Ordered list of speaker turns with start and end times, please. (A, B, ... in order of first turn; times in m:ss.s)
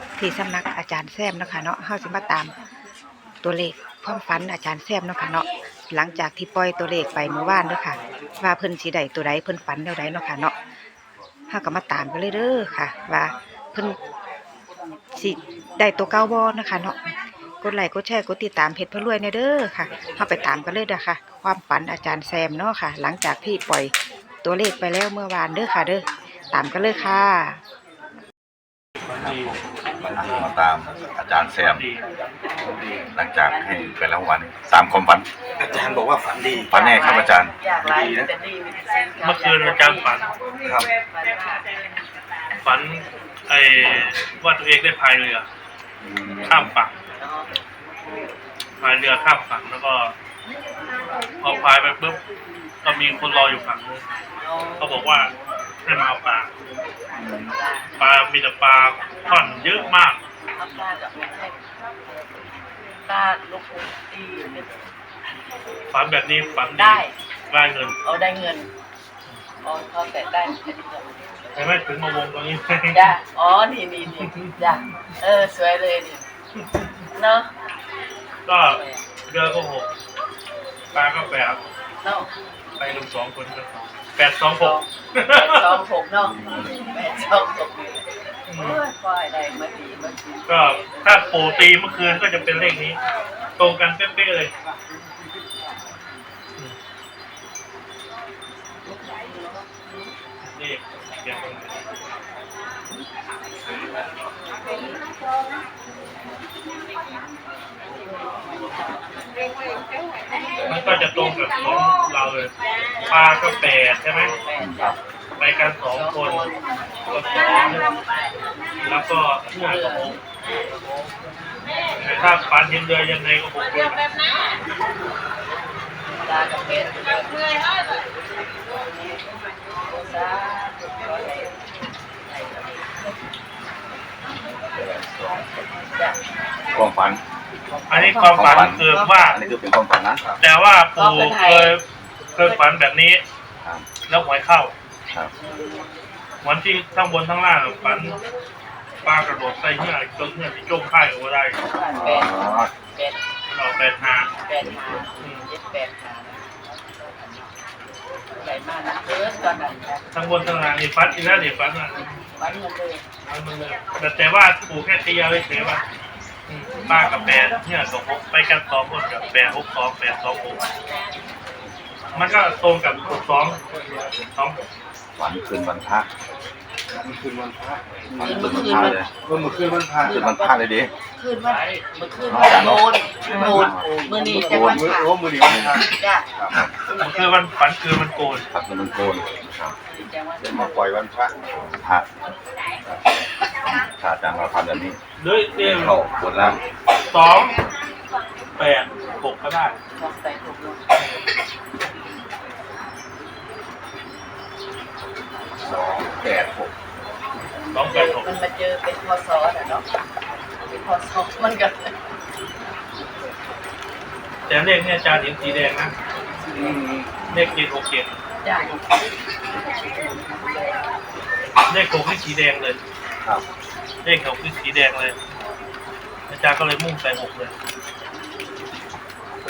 0:00.2-0:02.5 A
0:03.4-0:10.5 A
0:11.5-0:14.0 A
0:15.2-0:17.0 A
0:17.6-0:27.6 A
0:29.1-0:29.6 B
0:29.2-0:31.8 C
0:31.6-0:32.0 B
0:32.7-0:33.0 D
0:33.1-0:35.2 C
0:33.5-0:34.0 E
0:35.6-0:36.8 D
0:36.7-0:37.5 C
0:36.7-0:40.1 E
0:37.8-0:38.3 D
0:39.2-0:40.3 B
0:41.1-0:41.6 E
0:42.6-0:45.4 B
0:46.0-0:46.7 D
0:46.5-0:46.9 B
0:47.2-0:47.5 E
0:48.8-0:50.1 B
0:51.4-0:52.2 B
0:52.8-0:54.0 B
0:54.4-0:55.1 E
0:54.8-0:55.3 B
0:55.8-0:56.5 B
0:57.3-0:58.0 E
0:58.0-1:00.2 B
1:00.5-1:01.6 E
1:03.0-1:04.7 E
1:05.9-1:08.0 B
1:06.6-1:07.1 E
1:08.0-1:08.7 E
1:09.6-1:11.1 E
1:11.5-1:13.1 B
1:12.9-1:16.2 E
1:14.2-1:14.6 B
1:16.6-1:16.9 B
1:17.1-1:17.5 E
1:18.4-1:19.9 B
1:18.6-1:19.0 E
1:20.9-1:21.6 B
1:22.0-1:22.3 E
1:22.8-1:25.8 B
1:24.6-1:28.0 E
1:28.5-1:28.8 B
1:28.6-1:31.6 E
1:30.4-1:33.0 B
1:33.6-1:34.5 B
1:40.4-1:41.8 B
1:48.5-1:48.9 E
1:50.6-1:51.0 C
1:50.7-1:52.5 B
1:53.0-1:54.3 B
1:54.2-1:54.9 E
1:54.6-1:55.0 C
1:55.4-1:56.5 B
1:55.9-1:57.9 E
1:57.0-1:57.9 B
1:58.8-2:00.2 B
1:59.6-2:00.1 E
2:02.0-2:04.0 B
2:06.2-2:09.2 E
2:09.8-2:11.5 E
2:12.2-2:13.1 E
2:15.0-2:15.4 D
2:15.9-2:16.2 E
2:16.7-2:17.2 C
2:17.9-2:19.4 B
2:18.0-2:20.2 C
2:18.0-2:18.4 A
2:18.8-2:19.4 E
2:20.2-2:20.4 D
2:20.4-2:21.8 B
2:21.0-2:21.7 E
2:22.4-2:23.2 B
2:24.0-2:24.7 B
2:25.4-2:25.8 E
2:26.4-2:28.2 B
2:29.0-2:31.6 B
2:31.7-2:33.2 E
2:32.0-2:32.7 C
2:32.1-2:32.6 D
2:33.5-2:34.3 B
2:34.4-2:37.5 E
2:34.7-2:35.0 C
2:35.2-2:35.4 B
2:38.4-2:40.0 E
2:40.1-2:42.0 B
2:42.4-2:43.0 E
2:43.2-2:45.8 B
2:46.5-2:50.7 B
2:52.1-2:53.6 B
2:55.2-2:56.1 C
2:57.0-3:00.3 D
2:58.2-2:59.1 C
2:58.2-2:59.0 E
3:00.0-3:00.6 E
3:00.1-3:00.9 C
3:01.2-3:06.3 E
3:02.3-3:04.9 C
3:03.3-3:06.6 D
3:06.9-3:07.3 E
3:06.9-3:08.4 B
3:08.5-3:09.7 C
3:09.8-3:10.9 E
3:10.4-3:11.3 D
3:11.5-3:12.1 C
3:14.0-3:15.0 C
3:15.2-3:16.0 B
3:15.6-3:16.6 C
3:17.1-3:17.6 B
3:18.6-3:19.7 B
3:20.0-3:20.8 E
3:25.6-3:26.7 D
3:27.7-3:28.3 B
3:27.9-3:29.8 E
3:30.7-3:31.9 E
3:34.5-3:35.9 B
3:36.4-3:36.8 E
3:36.5-3:37.1 D
3:37.3-3:38.1 B
3:38.4-3:39.0 E
3:41.7-3:42.8 B
3:44.0-3:45.2 B
3:46.3-3:47.5 B